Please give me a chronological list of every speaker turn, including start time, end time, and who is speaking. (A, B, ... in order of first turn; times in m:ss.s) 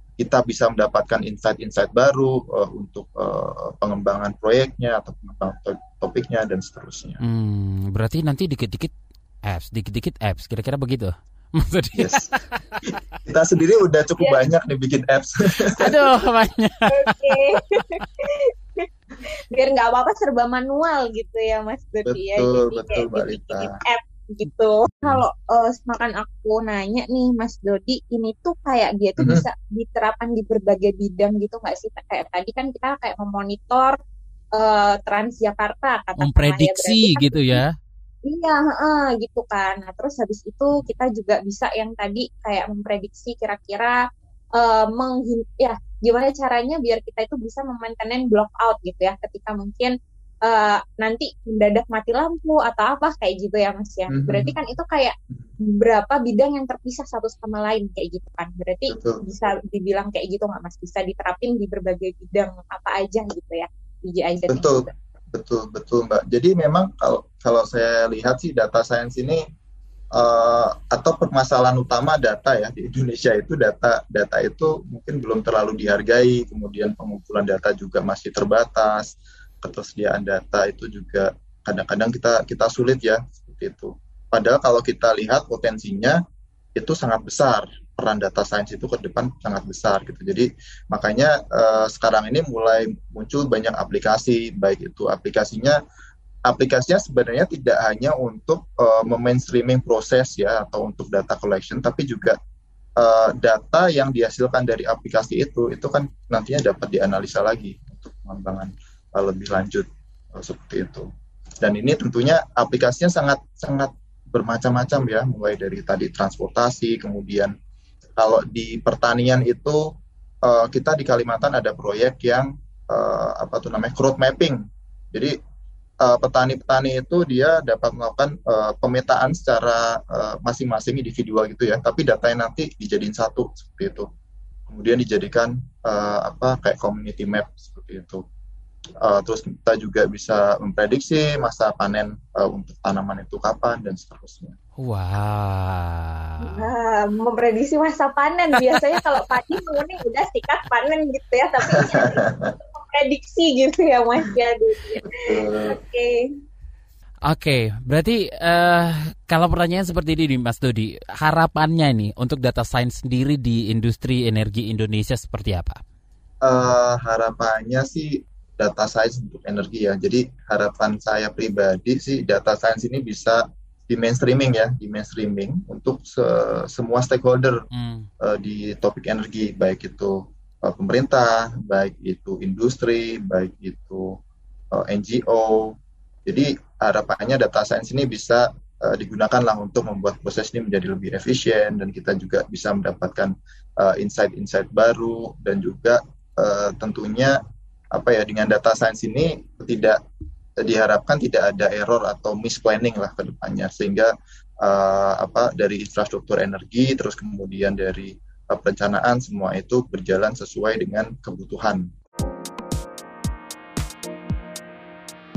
0:00.2-0:07.2 A
0:07.2-0:08.9 B
0:09.5-0:13.0 B
0:12.0-0:12.3 A
0:13.3-0:16.0 A
0:14.2-0:14.5 C
0:15.8-0:17.3 B
0:16.9-0:18.9 C
0:19.5-0:34.0 C
0:22.1-0:23.7 A
0:29.2-0:29.4 A
0:34.6-0:37.6 C
0:36.2-0:37.7 B
0:38.2-0:44.0 C
0:44.6-0:49.9 C
0:50.5-1:04.9 C
0:54.1-0:54.6 A
0:58.9-0:59.2 A
1:04.5-1:09.4 A
1:10.2-1:19.1 A
1:19.6-1:26.2 A
1:26.8-1:35.8 A
1:36.5-1:42.4 A
1:43.0-1:51.0 A
1:51.6-1:57.5 A
1:58.2-1:59.8 A
2:00.4-2:04.6 A
2:06.0-2:14.1 A
2:14.7-2:18.2 A
2:19.0-2:24.6 A
2:24.8-2:26.7 B
2:26.4-2:36.2 C
2:28.6-2:29.2 B
2:31.7-2:32.4 A
2:35.0-2:35.8 A
2:37.3-2:45.8 B
2:46.4-2:57.6 A
2:57.7-2:58.1 B
2:58.2-3:04.1 A
3:04.7-3:05.7 A
3:06.3-3:17.4 A
3:17.9-3:20.0 A
3:20.6-3:24.1 A
3:24.6-3:31.9 A